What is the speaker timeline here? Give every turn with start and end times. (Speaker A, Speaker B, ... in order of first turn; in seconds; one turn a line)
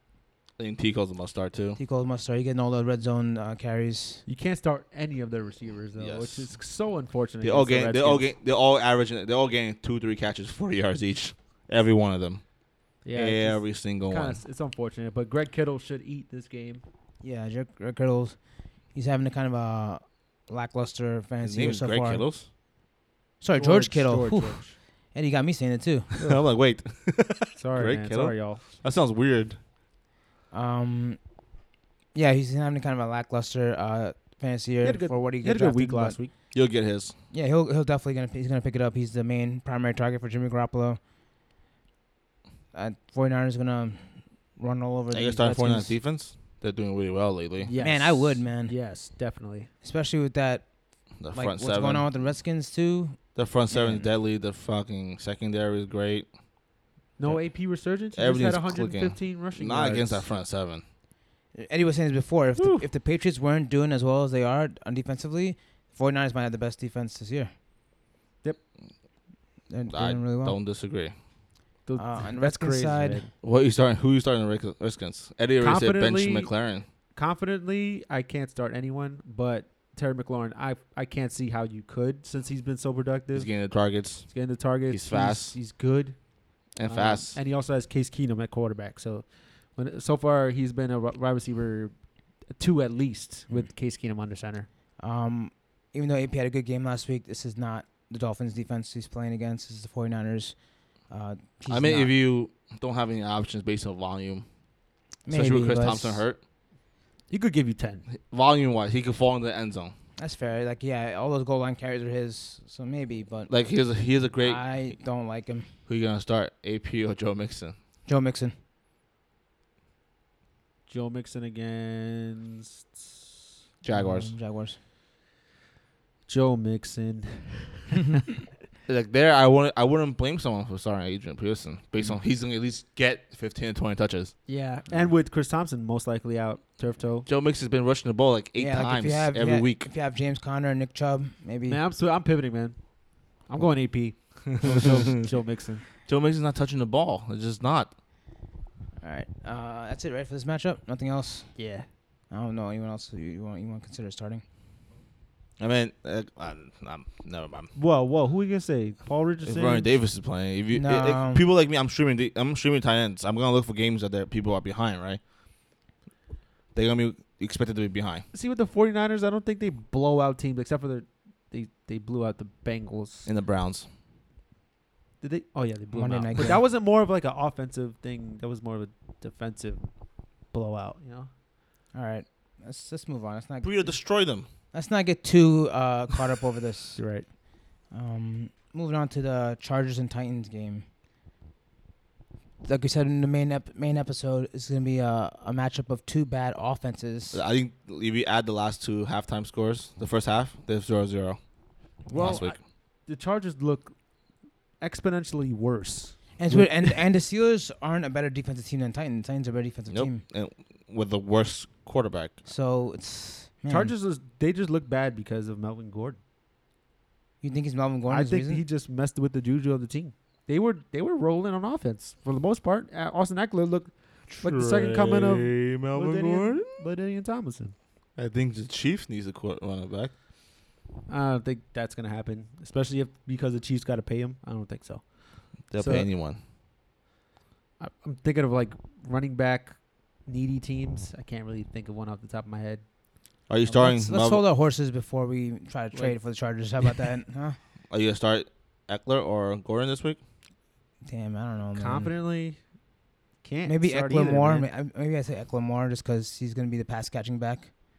Speaker A: 0.6-1.8
Speaker B: 1.8-4.2
Speaker C: 4.2-8.3
Speaker A: 6.0-6.7
Speaker A: 7.4-14.4
Speaker C: 13.0-16.8
Speaker B: 17.2-22.3
Speaker A: 21.4-22.5
Speaker B: 23.4-26.1
Speaker C: 23.6-24.8
Speaker A: 26.2-29.6
Speaker C: 27.5-28.6
Speaker B: 30.5-31.6
Speaker B: 32.1-41.0
Speaker C: 34.8-36.3
Speaker A: 36.5-37.2
Speaker B: 42.7-46.0
Speaker A: 45.1-47.8
Speaker C: 47.6-49.7
Speaker B: 47.8-49.1
Speaker B: 49.8-54.1
Speaker A: 51.2-52.4
Speaker A: 53.3-56.4
Speaker C: 57.2-60.3
Speaker A: 57.2-60.9
Speaker B: 61.5-67.5
Speaker C: 62.6-62.9
Speaker B: 69.7-70.6
Speaker A: 69.9-71.2
Speaker C: 71.8-73.3
Speaker B: 72.0-73.3
Speaker A: 73.4-76.9
Speaker C: 75.6-94.7
Speaker A: 83.3-85.6
Speaker A: 86.7-87.4
Speaker B: 95.0-102.2
Speaker A: 101.7-106.4
Speaker B: 105.2-106.3
Speaker C: 107.3-108.1
Speaker A: 108.1-109.9
Speaker B: 110.2-115.8
Speaker A: 113.5-117.8
Speaker B: 118.0-118.6
Speaker C: 120.9-123.2
Speaker A: 123.8-124.4
Speaker B: 123.9-124.8
Speaker C: 126.3-128.0
Speaker A: 128.9-135.1
Speaker C: 134.5-137.3
Speaker A: 137.2-139.9
Speaker B: 138.6-141.8
Speaker C: 141.7-145.8
Speaker A: 146.0-148.0
Speaker B: 149.0-154.4
Speaker C: 151.6-151.9
Speaker A: 155.6-157.7
Speaker C: 157.7-160.0
Speaker A: 159.4-165.3
Speaker B: 160.7-161.4
Speaker A: 166.7-168.3
Speaker C: 168.3-173.3
Speaker A: 173.2-173.9
Speaker C: 175.2-181.3
Speaker B: 175.9-176.6
Speaker B: 181.9-190.9
Speaker A: 183.6-184.5
Speaker C: 187.0-187.3
Speaker B: 192.6-197.4
Speaker A: 197.3-202.6
Speaker B: 202.1-202.5
Speaker C: 202.1-207.0
Speaker B: 206.4-210.2
Speaker A: 209.9-212.4
Speaker B: 212.4-213.9
Speaker C: 213.7-216.2
Speaker B: 217.4-218.7
Speaker C: 218.1-227.8
Speaker A: 224.4-226.8
Speaker A: 228.2-230.2
Speaker C: 231.1-236.1
Speaker A: 235.7-236.4
Speaker C: 237.8-242.9
Speaker A: 243.5-244.4
Speaker B: 243.7-247.6
Speaker C: 245.9-246.9
Speaker A: 247.9-250.2
Speaker B: 251.0-252.2
Speaker C: 251.7-254.7
Speaker B: 253.6-257.7